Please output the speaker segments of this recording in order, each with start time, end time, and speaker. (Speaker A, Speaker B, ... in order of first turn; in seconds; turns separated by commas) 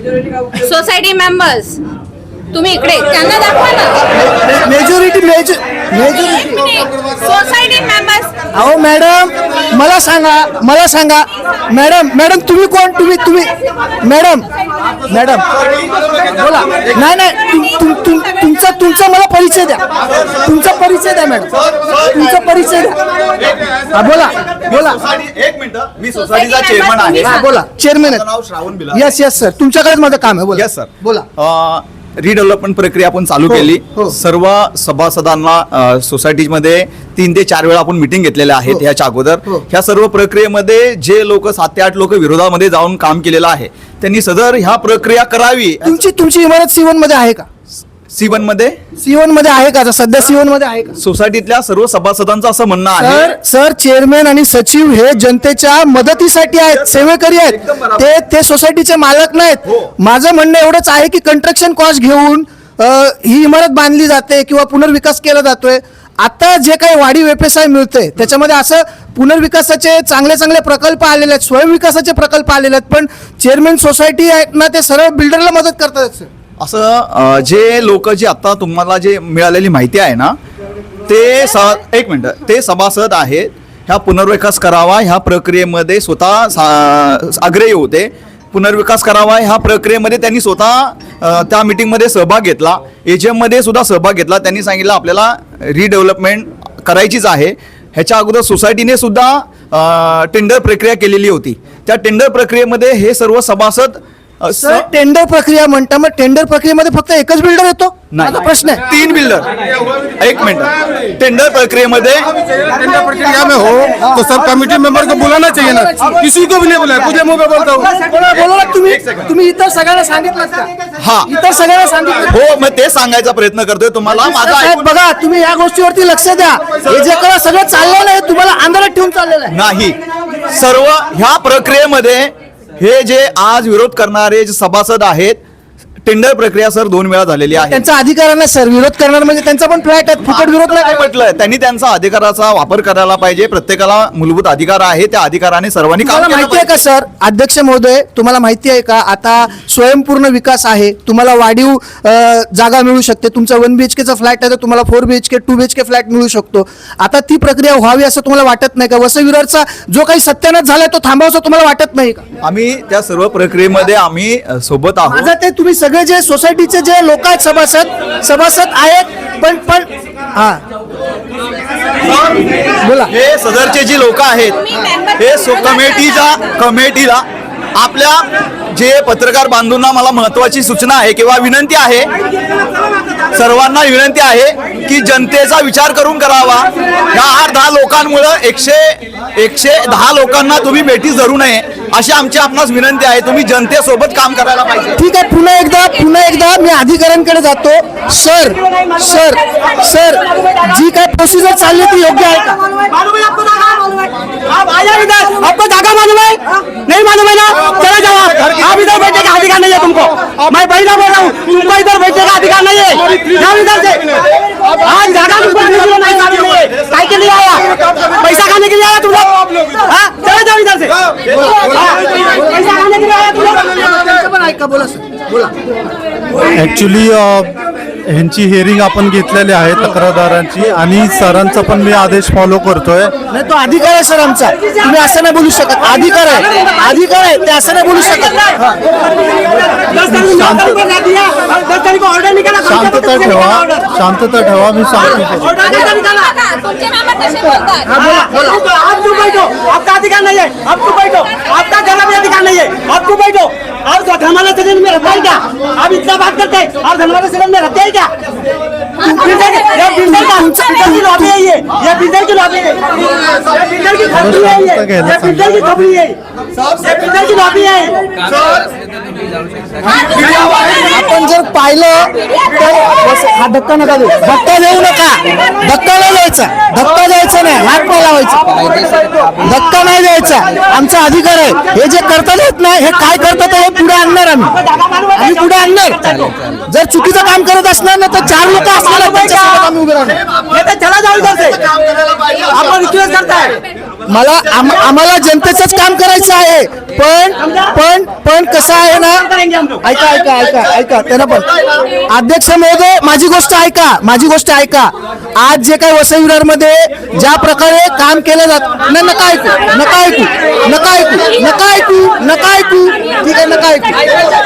Speaker A: 0.4-1.8, Speaker A: 2.5-4.0, Speaker B: 4.2-6.9, Speaker A: 7.0-8.3, Speaker B: 8.5-14.5, Speaker B: 15.1-15.5, Speaker C: 15.5-16.2, Speaker B: 16.3-19.8, Speaker B: 20.3-23.0, Speaker B: 23.9-25.0, Speaker C: 24.7-27.3, Speaker A: 26.3-27.5, Speaker B: 27.1-28.2, Speaker C: 28.0-29.1, Speaker B: 28.9-31.3, Speaker C: 30.5-45.9, Speaker B: 33.5-34.1, Speaker B: 45.8-47.5, Speaker C: 48.1-48.8, Speaker B: 49.0-51.0, Speaker C: 51.0-53.3, Speaker B: 53.0-76.3, Speaker C: 56.9-58.0, Speaker C: 76.6-80.4, Speaker C: 81.1-104.8, Speaker B: 104.6-108.8, Speaker C: 108.1-109.5, Speaker C: 110.2-112.3, Speaker D: 112.9-117.7, Speaker B: 113.8-120.7, Speaker C: 121.0-121.3, Speaker B: 121.3-122.3, Speaker C: 122.3-124.8, Speaker B: 124.1-129.6, Speaker C: 129.5-130.0, Speaker C: 130.5-135.4, Speaker C: 136.0-137.8, Speaker B: 137.6-141.0, Speaker C: 140.4-146.8, Speaker B: 146.1-162.2, Speaker C: 162.4-165.3, Speaker B: 165.1-170.6, Speaker B: 172.8-173.1, Speaker C: 173.1-174.6, Speaker C: 175.1-182.1, Speaker C: 183.3-195.0, Speaker B: 195.0-202.6, Speaker E: 202.9-214.2, Speaker E: 214.8-221.0, Speaker B: 221.4-221.7, Speaker E: 221.7-223.6, Speaker B: 223.5-225.5, Speaker F: 226.5-227.5, Speaker F: 228.1-233.1, Speaker B: 233.3-238.5, Speaker E: 239.4-243.8, Speaker F: 240.2-240.8, Speaker F: 242.7-245.6, Speaker E: 245.3-246.2, Speaker A: 245.8-248.0, Speaker B: 247.9-248.6, Speaker E: 248.2-258.1, Speaker B: 259.0-261.4, Speaker E: 259.3-266.1, Speaker F: 264.0-265.7, Speaker E: 266.7-268.0, Speaker B: 270.5-278.5, Speaker B: 279.4-284.6, Speaker E: 284.6-286.4, Speaker B: 285.1-286.1, Speaker B: 286.7-290.2, Speaker E: 289.0-289.4, Speaker E: 290.5-291.6, Speaker C: 291.6-292.8, Speaker E: 292.4-293.6, Speaker B: 294.1-299.3, Speaker E: 299.3-299.8, Speaker B: 299.8-314.1